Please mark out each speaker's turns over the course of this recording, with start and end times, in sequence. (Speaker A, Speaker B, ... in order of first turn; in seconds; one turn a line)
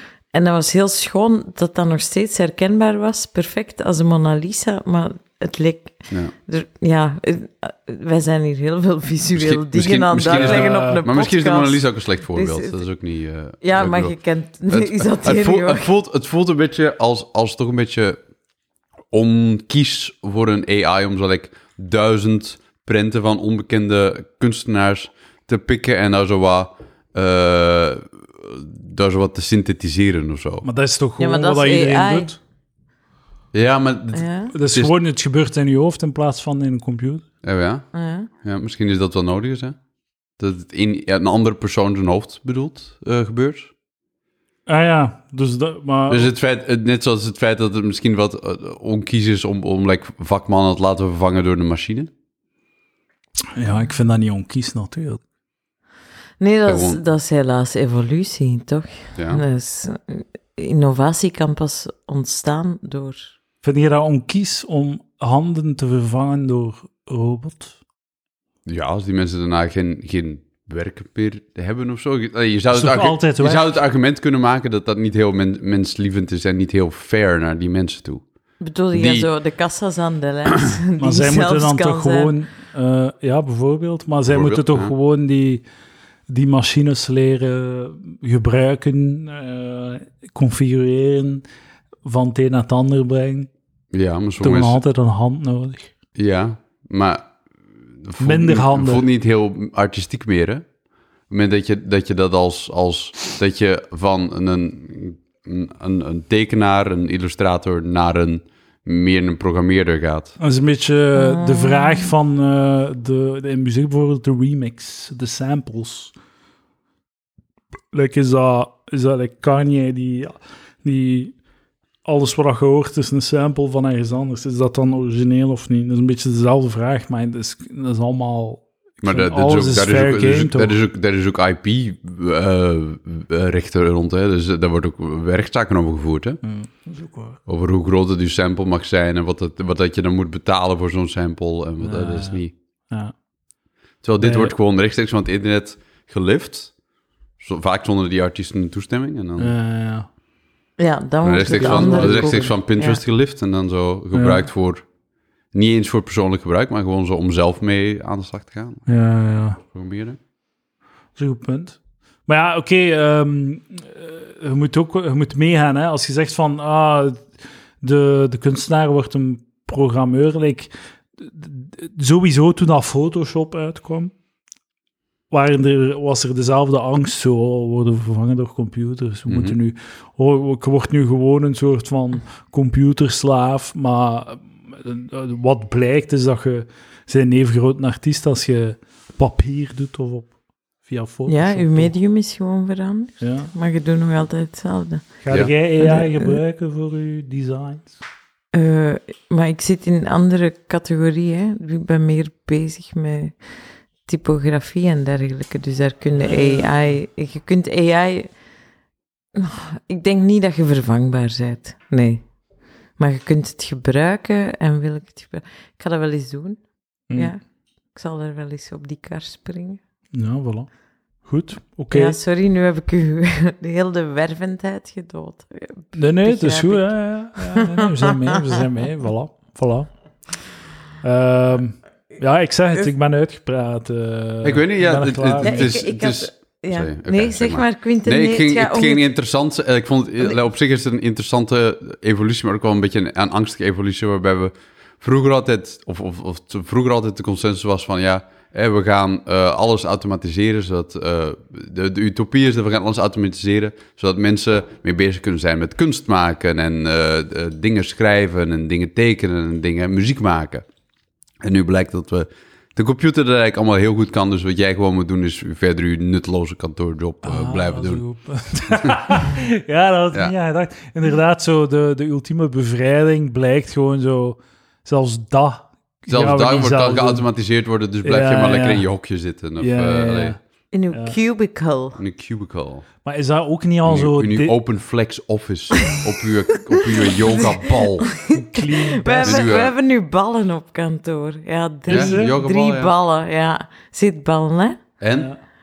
Speaker A: 0.3-12.8
Speaker B: 9.3-14.2
Speaker C: 10.3-11.1
Speaker A: 13.6-15.9
Speaker B: 14.7-18.2
Speaker B: 19.1-30.7
Speaker C: 30.6-32.4
Speaker A: 31.2-32.3
Speaker B: 33.5-34.9
Speaker A: 34.1-34.5
Speaker C: 34.5-37.2
Speaker B: 37.4-37.9
Speaker A: 37.9-38.3
Speaker B: 38.4-39.8
Speaker B: 40.4-43.7
Speaker C: 44.7-46.3
Speaker B: 46.1-52.1
Speaker C: 53.6-55.2
Speaker A: 56.4-63.3
Speaker B: 56.7-57.0
Speaker B: 59.2-59.4
Speaker C: 63.6-67.8
Speaker B: 68.7-78.2
Speaker C: 72.7-73.8
Speaker A: 78.6-82.3
Speaker B: 78.9-79.3
Speaker C: 81.0-85.6
Speaker B: 84.3-84.9
Speaker C: 86.3-91.4
Speaker C: 92.0-93.5
Speaker B: 93.9-94.8
Speaker C: 94.4-95.9
Speaker B: 96.2-97.3
Speaker B: 97.9-100.7
Speaker C: 98.2-99.0
Speaker B: 101.3-110.4
Speaker C: 110.4-116.1
Speaker A: 111.2-112.1
Speaker C: 117.9-121.3
Speaker C: 122.0-130.8
Speaker B: 129.0-136.4
Speaker C: 136.4-137.4
Speaker B: 137.5-142.5
Speaker C: 141.8-143.1
Speaker B: 144.0-146.7
Speaker C: 144.2-144.5
Speaker B: 147.4-149.5
Speaker C: 149.4-150.1
Speaker A: 150.8-153.0
Speaker B: 151.2-154.8
Speaker C: 151.4-152.5
Speaker C: 154.1-154.5
Speaker B: 155.5-158.8
Speaker C: 158.9-159.6
Speaker B: 159.7-160.2
Speaker C: 161.2-174.1
Speaker C: 175.3-190.3
Speaker B: 179.3-179.6
Speaker C: 190.8-191.9
Speaker A: 191.3-195.1
Speaker C: 193.2-193.5
Speaker C: 195.2-198.0
Speaker A: 195.8-196.4
Speaker A: 198.5-203.3
Speaker A: 204.1-208.3
Speaker C: 206.2-206.7
Speaker A: 209.3-212.2
Speaker A: 213.0-216.6
Speaker A: 217.1-217.4
Speaker A: 217.9-219.8
Speaker C: 220.1-220.7
Speaker C: 221.2-222.2
Speaker A: 221.9-228.4
Speaker C: 225.9-229.9
Speaker C: 231.0-235.8
Speaker B: 234.4-260.7
Speaker A: 235.4-239.1
Speaker B: 261.4-268.0
Speaker C: 267.2-277.3
Speaker B: 268.8-269.1
Speaker B: 276.1-280.4
Speaker C: 278.0-278.9
Speaker C: 279.6-280.4
Speaker A: 280.7-282.0
Speaker C: 280.9-281.2
Speaker B: 282.0-282.9
Speaker C: 283.0-284.6
Speaker B: 283.9-288.1
Speaker A: 285.8-286.1
Speaker A: 286.7-294.8
Speaker C: 288.3-289.5
Speaker B: 289.2-289.7
Speaker C: 291.9-292.3
Speaker B: 291.9-292.9
Speaker B: 295.0-295.3
Speaker C: 295.1-295.4